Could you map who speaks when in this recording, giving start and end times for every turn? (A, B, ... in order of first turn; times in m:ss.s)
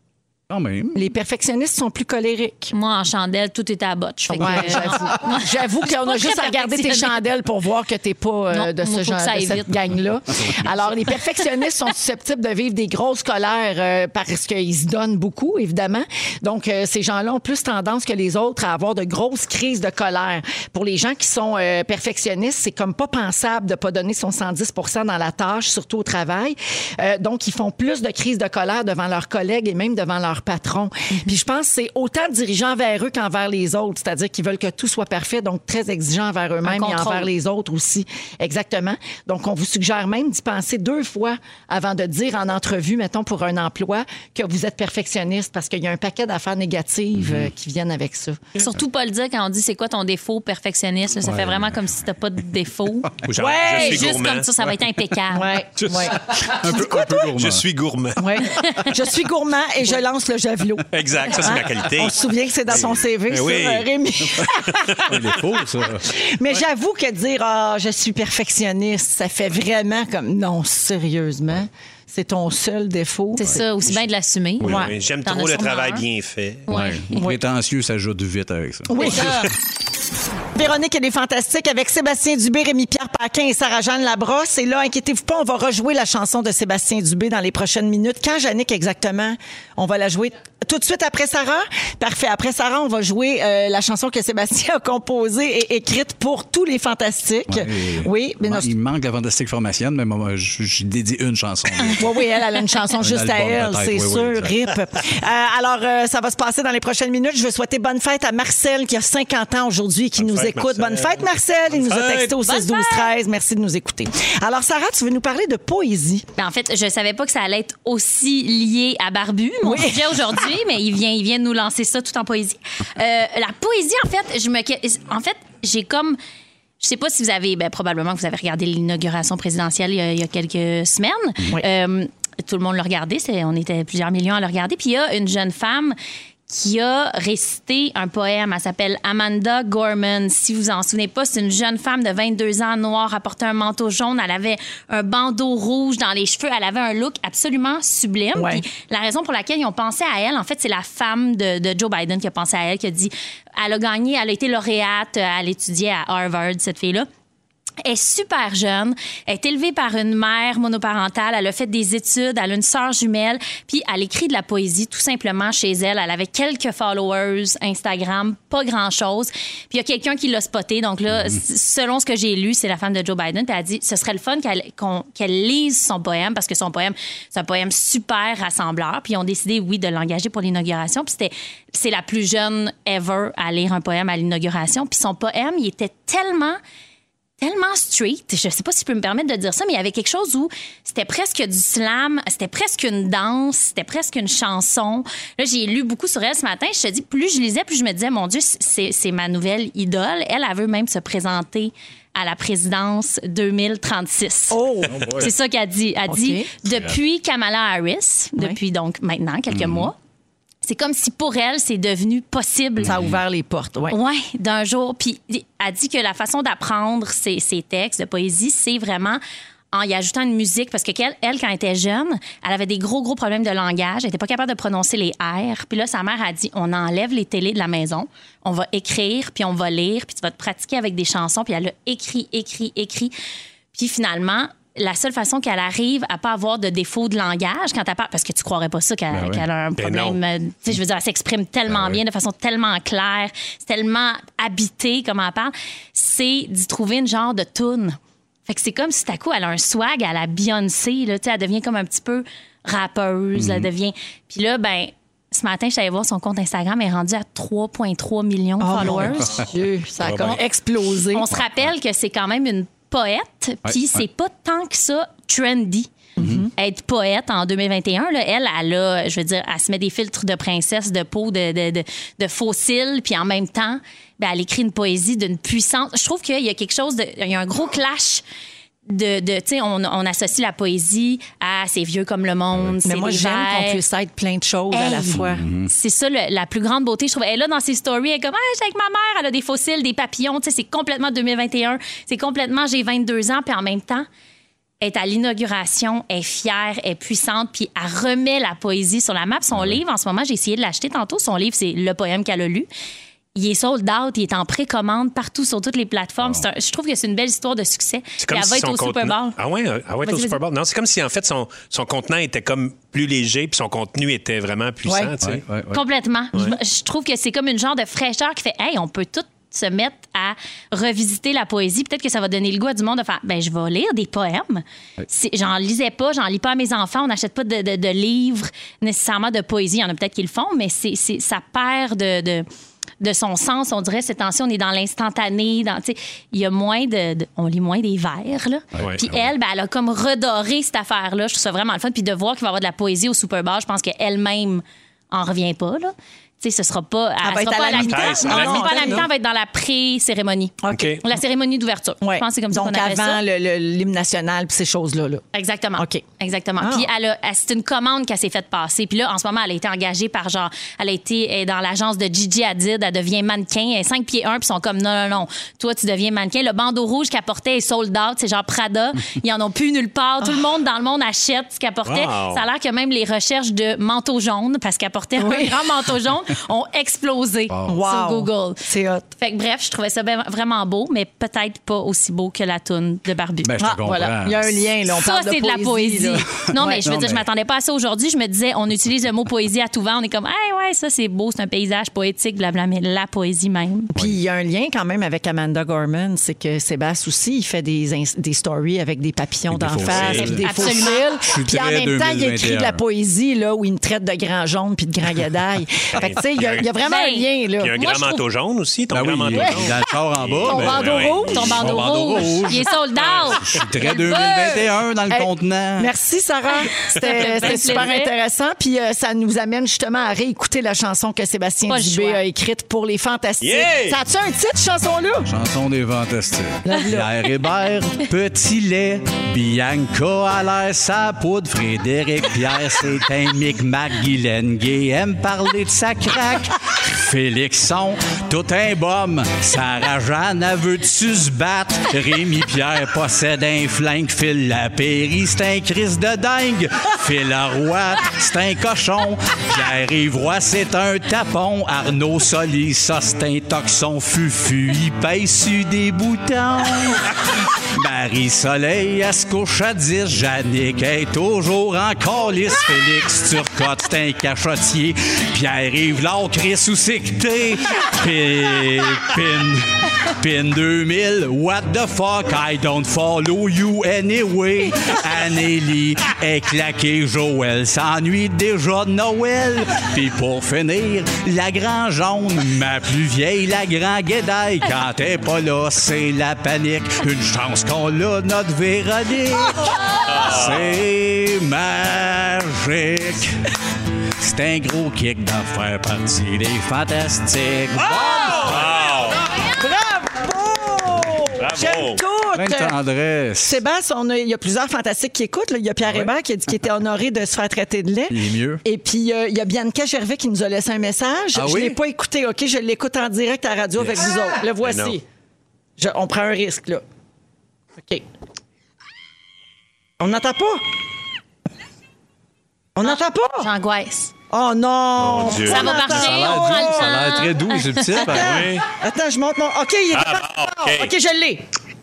0:00.5-0:01.0 A
0:00.9-0:02.7 B
0:02.7-0:07.2 C
0:04.3-0:48.4 B
0:04.4-0:05.0 A
0:08.5-0:09.7 C
0:36.6-0:37.3 C
0:47.2-0:47.5 A
0:48.6-0:55.6 C
0:51.2-0:51.8 A
0:53.2-0:54.6 D
0:53.4-0:54.2 B
0:55.3-0:57.3 B
0:55.8-0:56.6 D
0:56.3-0:57.6 A
0:57.2-0:58.2 D
0:58.2-1:04.9 B
0:58.5-0:58.9 C
1:00.9-1:03.9 D
1:04.7-1:05.4 D
1:05.0-1:06.1 A
1:06.1-1:13.6 B
1:13.4-1:16.0 C
1:14.6-1:14.9 A
1:14.6-1:16.7 D
1:14.6-1:14.9 B
1:16.7-1:17.2 C
1:16.7-1:19.4 A
1:18.9-1:19.5 B
1:19.0-1:19.3 C
1:20.6-1:38.7 B
1:37.5-1:42.1 A
1:41.9-1:56.2 B
1:43.0-1:44.6 A
1:50.2-1:52.4 D
1:52.4-1:53.2 C
1:56.4-2:06.2 C
1:59.6-2:00.4 B
2:06.8-2:16.0 C
2:16.5-2:37.1 C
2:28.4-2:28.6 B
2:37.8-3:06.6 C
2:51.1-2:51.4 A
3:07.4-3:30.0 C
3:24.5-3:25.3 B
3:24.9-3:25.3 A
3:26.1-3:26.5 B
3:29.5-3:29.9 A
3:30.6-3:33.0 C
3:32.8-3:33.2 A
3:32.8-3:34.0 B
3:33.9-3:39.2 C
3:39.7-3:53.1 C
3:53.7-4:19.4 C
3:59.1-3:59.4 A
3:59.8-4:00.2 D
4:01.7-4:02.0 A
4:13.4-4:13.7 A
4:18.6-4:21.3 B
4:20.0-4:20.4 D
4:21.1-4:25.9 C
4:23.6-4:24.0 A
4:26.2-4:26.5 A
4:26.2-4:26.5 B
4:26.6-4:38.2 C
4:38.9-4:43.8 C
4:42.8-4:45.4 B
4:44.7-4:54.1 C
4:45.1-4:45.7 A
4:54.8-5:02.7 C
4:59.5-4:59.8 A
5:03.4-5:09.4 C
5:06.2-5:06.5 A
5:08.2-5:15.4 D
5:10.0-5:10.4 C
5:14.9-5:15.1 B
5:15.2-5:15.8 A
5:15.7-5:32.5 C
5:33.0-5:53.2 C
5:38.8-5:39.3 A
5:47.2-5:49.1 B
5:47.7-5:49.1 D
5:50.7-5:51.0 B
5:50.7-5:51.0 D
5:52.0-5:55.2 B
5:55.3-6:18.6 C
5:55.8-5:56.0 B
5:56.6-5:56.9 B
6:11.8-6:12.4 D
6:15.2-6:15.6 B
6:17.5-6:17.8 A
6:17.7-6:19.1 B
6:19.2-6:23.5 C
6:23.4-6:24.7 A
6:23.6-6:26.8 B
6:24.9-6:33.9 C
6:26.8-6:27.2 A
6:33.9-6:47.7 B
6:39.5-6:42.8 A
6:39.8-6:40.4 D
6:40.4-6:41.2 C
6:46.0-6:46.7 D
6:46.8-6:48.2 C
6:47.6-6:51.5 D
6:48.9-6:52.7 A
6:50.5-6:51.6 B
6:50.7-6:54.7 C
6:52.9-6:53.6 D
6:53.3-6:55.9 A
6:55.1-7:05.3 B
6:56.8-6:58.1 C
7:01.7-7:02.2 C
7:03.4-7:04.0 D
7:05.3-8:13.4 A
7:06.7-7:07.1 B
8:10.0-8:10.8 D
8:14.2-8:18.8 A
8:17.8-8:19.5 D
8:19.5-8:22.8 B
8:21.4-8:22.0 D
8:22.3-8:23.6 A
8:23.4-8:35.0 B
8:25.8-8:26.1 A
8:28.1-8:28.6 A
8:31.3-8:31.8 A
8:33.8-8:34.0 A
8:34.6-8:35.0 D
8:35.8-8:36.8 B
8:37.8-8:38.0 B
8:40.0-8:40.6 B
8:42.8-8:43.5 B
8:42.8-8:44.1 C
8:44.3-8:47.2 B
8:45.0-8:45.7 D
8:45.3-8:48.0 C
8:45.5-8:48.5 A
8:47.9-8:51.4 B
8:48.1-8:48.7 D
8:49.9-8:50.9 D